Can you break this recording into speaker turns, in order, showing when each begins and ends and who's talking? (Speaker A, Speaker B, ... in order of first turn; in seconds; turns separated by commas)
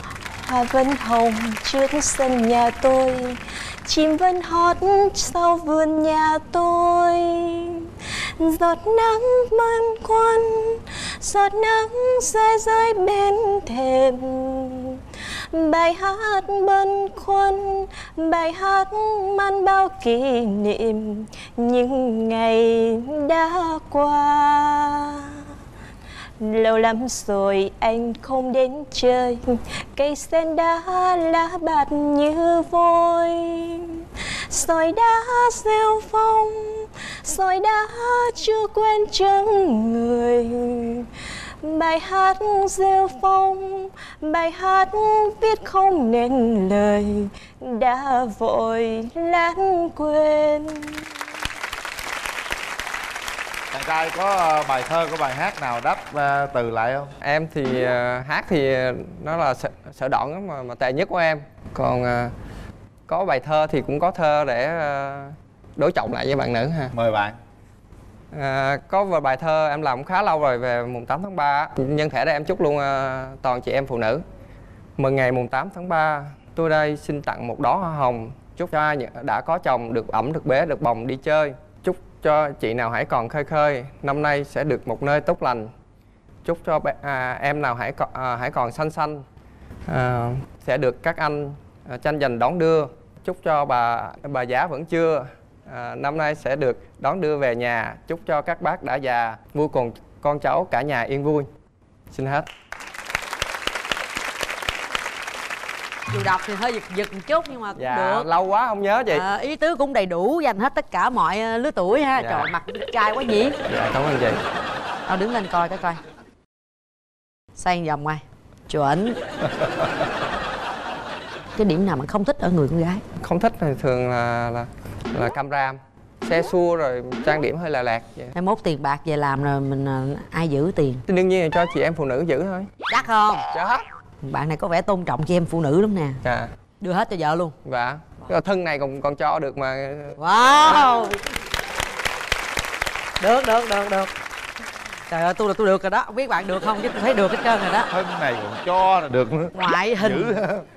Speaker A: 0.4-15.0, Speaker A: 15.5-25.4, Speaker A: 26.4-29.4, Speaker A: 29.9-41.1, Speaker A: 41.6-51.0, Speaker B: 53.7-57.1, Speaker C: 57.2-62.3, Speaker C: 63.1-66.9, Speaker B: 66.9-67.3, Speaker C: 68.3-74.2, Speaker C: 75.0-85.7, Speaker C: 86.4-89.2, Speaker C: 89.9-101.5, Speaker C: 102.1-102.5, Speaker D: 106.1-108.3, Speaker C: 107.8-109.2, Speaker D: 109.1-113.6, Speaker C: 112.2-112.5, Speaker C: 113.7-114.4, Speaker D: 115.1-116.0, Speaker D: 117.6-119.2, Speaker D: 121.6-123.0, Speaker C: 123.2-128.3, Speaker D: 128.3-131.0, Speaker C: 131.1-132.7, Speaker D: 132.9-133.4, Speaker C: 133.5-133.8, Speaker D: 134.2-136.2, Speaker C: 136.2-136.5, Speaker D: 136.8-137.5, Speaker C: 137.6-140.2, Speaker D: 140.2-141.2, Speaker D: 143.2-144.1, Speaker D: 145.1-147.9, Speaker B: 147.9-150.6, Speaker D: 149.6-150.3